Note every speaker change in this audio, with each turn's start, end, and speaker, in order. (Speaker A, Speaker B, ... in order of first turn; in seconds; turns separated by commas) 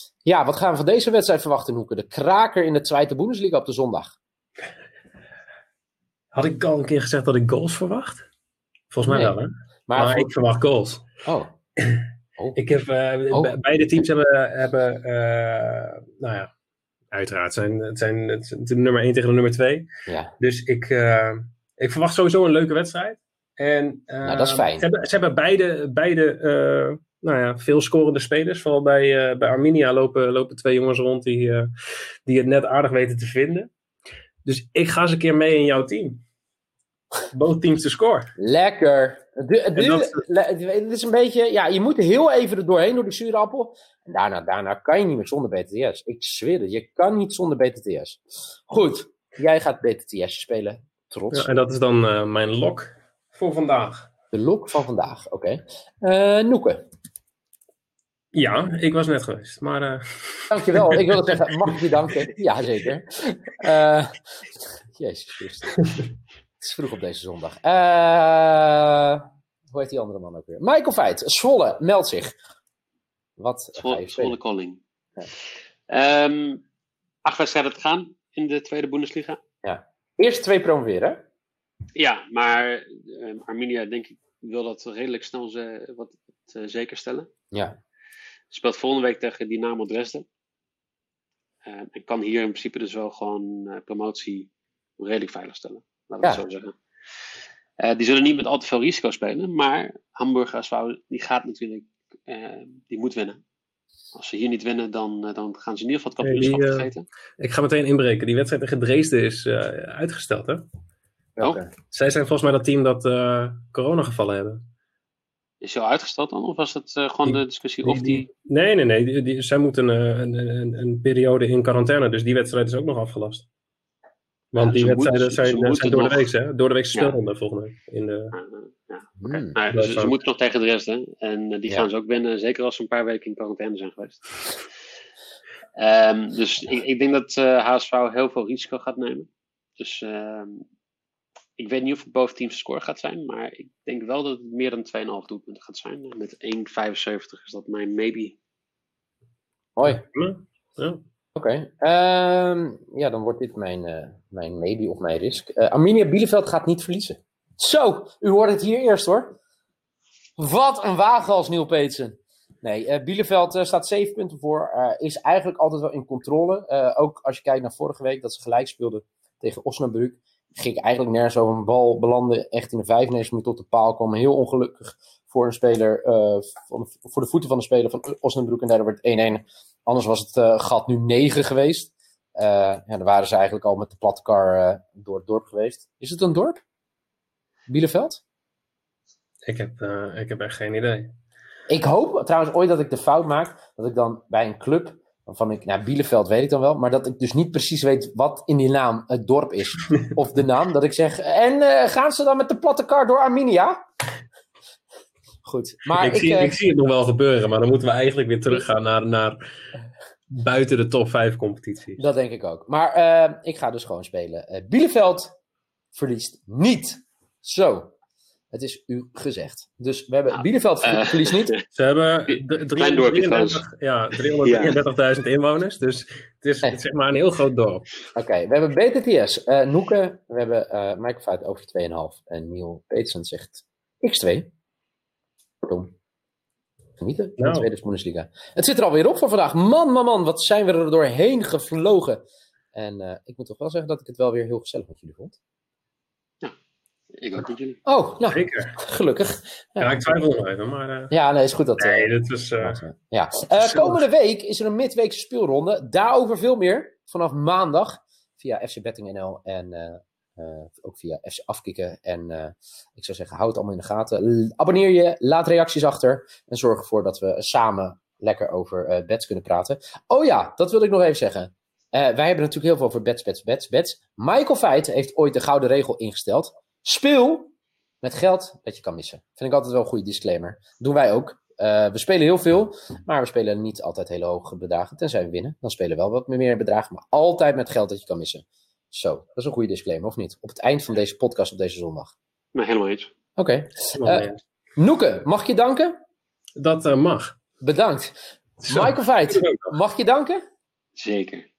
Speaker A: 0.2-4.1, Speaker B: 6.3-8.2, Speaker B: 8.9-11.0, Speaker A: 9.0-9.4, Speaker A: 9.9-10.3, Speaker A: 11.2-11.5, Speaker B: 11.8-16.5, Speaker A: 13.3-13.6, Speaker B: 17.1-19.9, Speaker A: 20.1-20.3, Speaker B: 20.4-31.7, Speaker A: 24.2-24.9, Speaker B: 32.2-33.7, Speaker B: 34.4-36.2, Speaker B: 37.3-38.3, Speaker A: 38.4-51.5, Speaker B: 39.8-40.2, Speaker B: 51.3-54.1, Speaker A: 54.3-56.8, Speaker B: 58.3-61.0, Speaker A: 60.5-65.9, Speaker A: 66.6-72.3, Speaker A: 73.4-74.4, Speaker C: 73.8-74.8, Speaker C: 75.9-76.6, Speaker C: 77.2-79.4, Speaker A: 79.6-81.2, Speaker C: 82.0-87.3, Speaker A: 87.5-87.8, Speaker C: 88.5-90.2, Speaker C: 91.6-96.8, Speaker C: 97.8-103.4, Speaker C: 104.1-107.0, Speaker B: 106.2-110.7, Speaker A: 111.4-111.7, Speaker B: 111.9-114.6, Speaker C: 115.6-118.3, Speaker B: 117.2-123.5, Speaker B: 124.5-128.3, Speaker C: 124.5-126.3, Speaker C: 128.3-134.6, Speaker A: 129.2-129.6, Speaker B: 129.7-130.1, Speaker C: 135.8-140.6, Speaker C: 141.6-148.4, Speaker A: 149.8-150.0, Speaker B: 149.8-151.0, Speaker A: 151.3-159.4, Speaker A: 160.4-186.6, Speaker A: 187.7-188.2, Speaker B: 189.4-191.1, Speaker A: 191.7-203.8, Speaker A: 205.4-206.6, Speaker B: 205.9-209.4, Speaker B: 210.3-212.0, Speaker A: 212.0-215.3, Speaker A: 215.9-217.9, Speaker A: 218.5-221.5, Speaker C: 220.3-221.6, Speaker B: 221.7-227.9, Speaker C: 222.3-223.6, Speaker C: 224.2-224.8, Speaker A: 228.1-234.5, Speaker A: 235.6-235.9, Speaker A: 237.0-245.4, Speaker B: 237.4-237.7, Speaker C: 247.1-247.8, Speaker A: 247.8-250.1, Speaker B: 248.3-248.8, Speaker B: 249.8-251.1, Speaker A: 251.1-292.1, Speaker B: 251.8-252.8, Speaker B: 253.6-254.0, Speaker C: 292.5-293.1, Speaker A: 293.4-295.9, Speaker B: 293.9-294.4, Speaker B: 296.6-297.4, Speaker A: 297.6-300.4, Speaker B: 298.6-299.7, Speaker C: 300.9-301.5